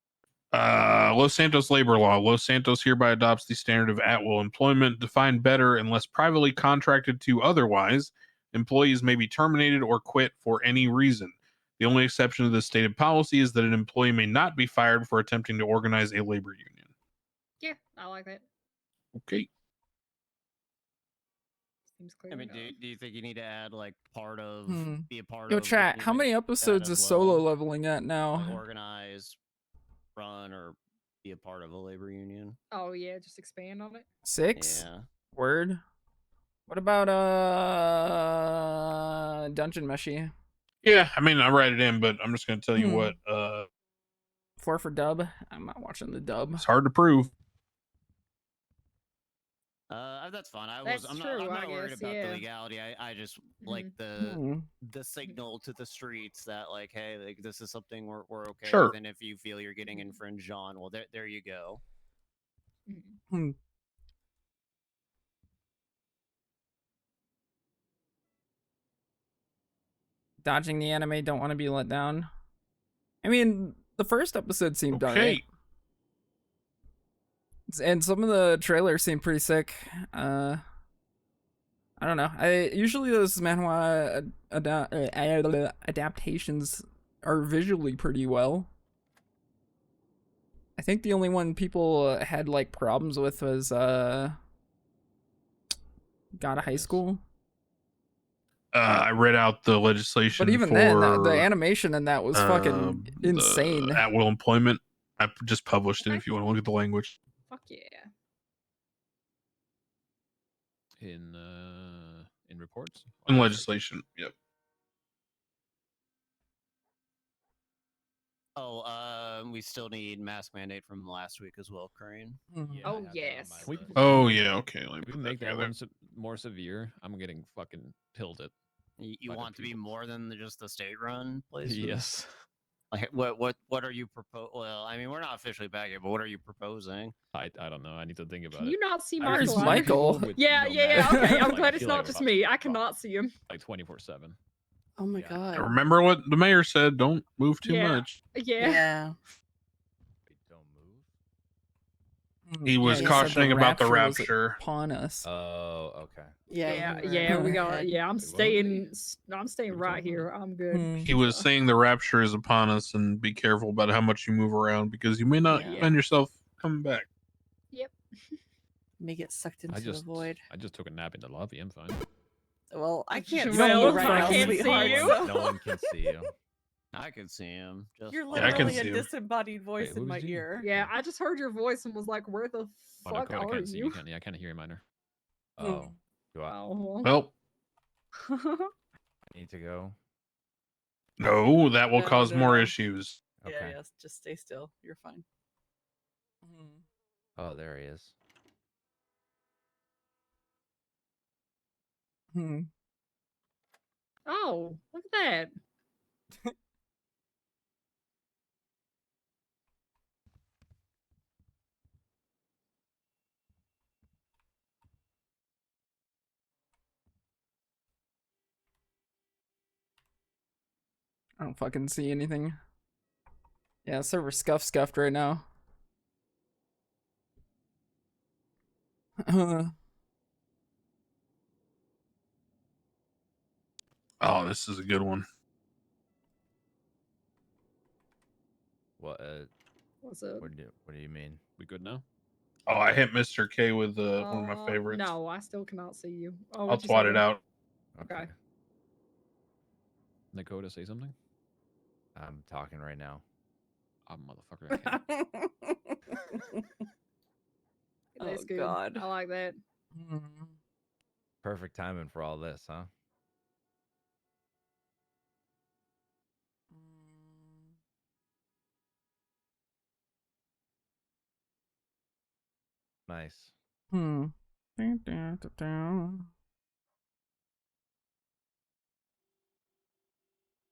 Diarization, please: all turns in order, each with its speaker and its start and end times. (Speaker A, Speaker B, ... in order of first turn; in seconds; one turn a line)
Speaker A: 0.5-16.9
Speaker B: 17.6-18.4
Speaker A: 19.1-19.5
Speaker B: 21.9-22.8
Speaker C: 22.3-27.4
Speaker D: 24.7-28.6
Speaker C: 28.3-29.4
Speaker C: 30.2-32.6
Speaker B: 32.7-34.1
Speaker D: 34.2-35.8
Speaker C: 34.6-35.1
Speaker D: 36.7-40.3
Speaker A: 40.8-43.7
Speaker D: 42.8-43.2
Speaker D: 44.6-46.6
Speaker A: 46.6-47.3
Speaker C: 49.9-61.8
Speaker B: 50.8-52.5
Speaker B: 53.6-54.0
Speaker D: 54.2-54.7
Speaker A: 58.6-59.0
Speaker B: 59.9-60.2
Speaker B: 62.9-63.2
Speaker D: 70.4-72.3
Speaker D: 73.2-75.4
Speaker A: 74.9-75.5
Speaker D: 77.7-80.6
Speaker D: 82.0-88.7
Speaker D: 90.8-94.3
Speaker D: 96.4-97.2
Speaker E: 96.6-97.0
Speaker A: 98.7-101.5
Speaker D: 100.3-104.0
Speaker A: 102.3-107.2
Speaker B: 106.0-106.3
Speaker B: 107.5-108.1
Speaker E: 111.0-113.7
Speaker A: 113.3-114.3
Speaker C: 118.6-122.4
Speaker D: 122.5-122.9
Speaker F: 122.6-124.3
Speaker B: 122.8-123.6
Speaker E: 123.6-124.3
Speaker A: 124.0-125.7
Speaker E: 125.0-128.5
Speaker C: 129.0-131.5
Speaker E: 129.2-129.9
Speaker G: 131.5-132.0
Speaker E: 131.6-132.3
Speaker C: 132.9-137.2
Speaker E: 137.3-142.8
Speaker B: 138.5-143.3
Speaker D: 139.3-140.3
Speaker D: 141.0-141.5
Speaker E: 143.5-144.4
Speaker G: 145.0-145.7
Speaker F: 145.1-145.7
Speaker A: 145.5-148.2
Speaker B: 147.6-148.9
Speaker G: 148.6-149.1
Speaker F: 150.3-151.1
Speaker D: 152.5-155.3
Speaker A: 152.7-154.6
Speaker G: 152.8-153.4
Speaker F: 155.2-157.1
Speaker G: 156.5-158.0
Speaker B: 156.7-161.5
Speaker D: 157.3-157.6
Speaker F: 157.7-158.8
Speaker E: 159.7-160.3
Speaker D: 160.7-161.1
Speaker A: 161.0-167.1
Speaker G: 165.5-166.0
Speaker B: 167.7-168.4
Speaker G: 169.0-170.4
Speaker E: 169.7-172.0
Speaker G: 172.7-175.6
Speaker B: 173.1-175.2
Speaker D: 173.5-174.6
Speaker F: 174.1-176.3
Speaker E: 174.2-174.8
Speaker C: 176.9-178.7
Speaker G: 178.1-180.7
Speaker A: 178.3-179.1
Speaker E: 179.8-180.9
Speaker B: 180.6-184.0
Speaker E: 183.1-184.8
Speaker F: 185.6-186.6
Speaker D: 185.6-185.9
Speaker B: 186.5-187.2
Speaker A: 187.0-187.3
Speaker B: 188.2-188.7
Speaker F: 189.3-190.0
Speaker A: 191.2-193.2
Speaker G: 191.9-192.7
Speaker F: 193.4-193.8
Speaker G: 193.4-195.2
Speaker D: 196.4-196.8
Speaker F: 197.4-198.1
Speaker D: 202.3-202.7
Speaker B: 204.3-205.5
Speaker D: 221.4-222.6
Speaker D: 223.8-225.4
Speaker D: 229.2-229.7
Speaker A: 234.2-235.2
Speaker F: 239.0-239.5
Speaker B: 240.0-240.5
Speaker F: 240.4-241.4
Speaker E: 241.6-242.0
Speaker A: 242.7-245.1
Speaker B: 244.2-247.3
Speaker A: 246.7-247.4
Speaker F: 248.0-248.3
Speaker B: 248.0-248.3
Speaker E: 250.3-251.1
Speaker F: 252.2-253.2
Speaker E: 254.1-255.0
Speaker G: 254.7-256.9
Speaker B: 258.2-259.6
Speaker G: 258.2-259.1
Speaker D: 259.9-260.5
Speaker F: 261.4-262.9
Speaker D: 266.7-267.5
Speaker F: 273.1-273.5
Speaker D: 273.9-276.3